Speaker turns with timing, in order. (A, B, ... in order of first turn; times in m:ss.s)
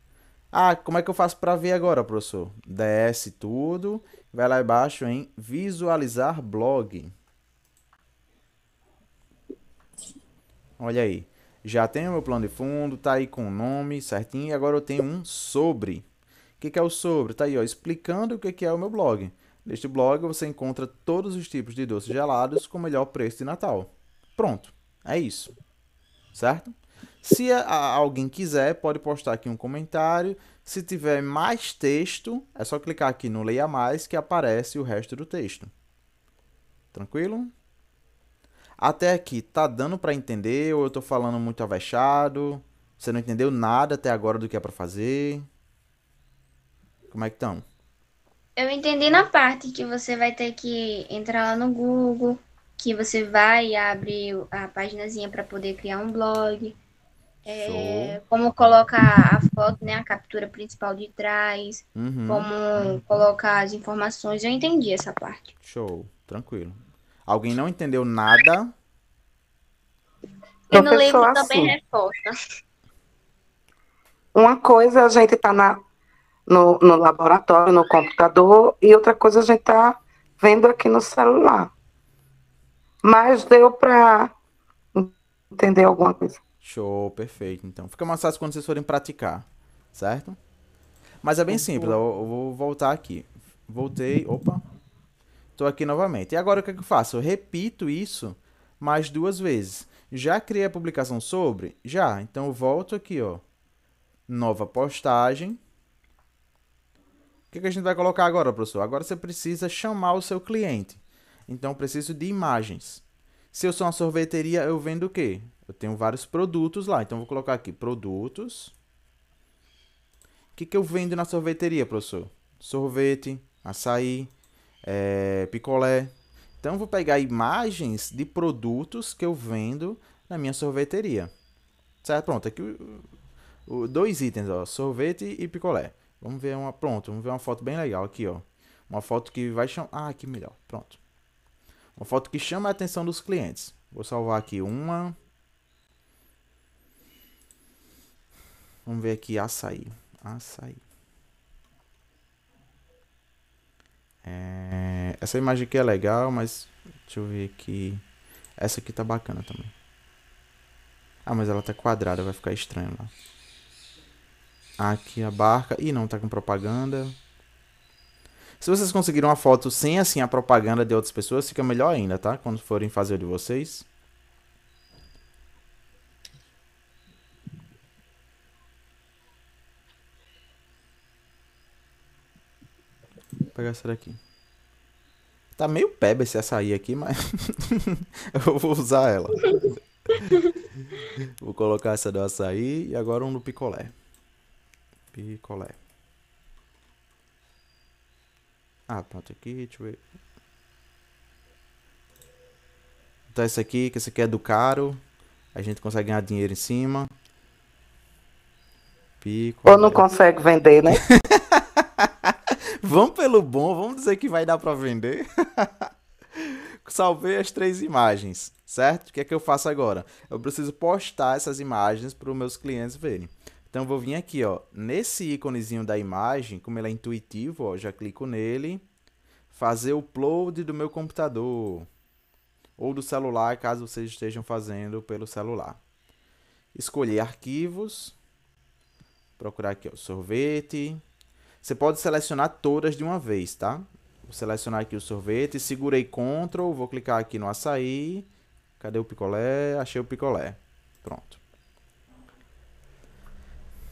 0:00.5-0:07.1 A
0:10.8-0:16.0 A
0:16.6-0:25.5 A
0:26.3-0:35.7 A
0:36.9-0:37.5 A
0:38.8-0:45.5 A
0:47.1-0:47.6 A
0:48.6-0:56.8 B
0:57.4-0:58.2 A
0:57.4-1:05.5 B
1:01.9-1:02.5 A
1:05.6-1:08.7 A
1:10.7-1:11.7 C
1:10.7-1:12.4 B
1:14.3-1:15.8 C
1:16.5-1:21.7 C
1:23.0-1:24.3 C
1:24.9-1:26.4 C
1:26.6-1:30.4 A
1:31.2-1:34.6 A
1:35.6-1:43.4 A
1:44.3-1:45.6 A
1:47.5-1:53.0 A
1:53.5-1:58.7 A
2:00.6-2:04.3 A
2:04.8-2:11.3 A
2:12.0-2:13.0 A
2:13.7-2:21.0 A
2:22.0-2:25.2 A
2:28.8-2:30.8 A
2:34.2-2:38.0 A
2:38.6-2:39.7 A
2:41.2-2:43.1 A
2:44.8-2:47.1 A
2:48.6-2:53.8 A
3:03.5-3:04.2 A
3:05.6-3:09.7 A
3:10.9-3:13.9 A
3:15.1-3:15.8 A
3:18.9-3:20.0 A
3:23.3-3:25.0 A
3:25.5-3:27.1 A
3:29.2-3:30.0 A
3:29.6-3:31.0 C
3:31.1-3:48.8 A
3:49.5-3:51.9 A
3:52.8-3:55.8 A
3:56.7-3:58.2 A
3:59.4-4:01.0 A
4:01.6-4:08.3 A
4:08.8-4:11.4 A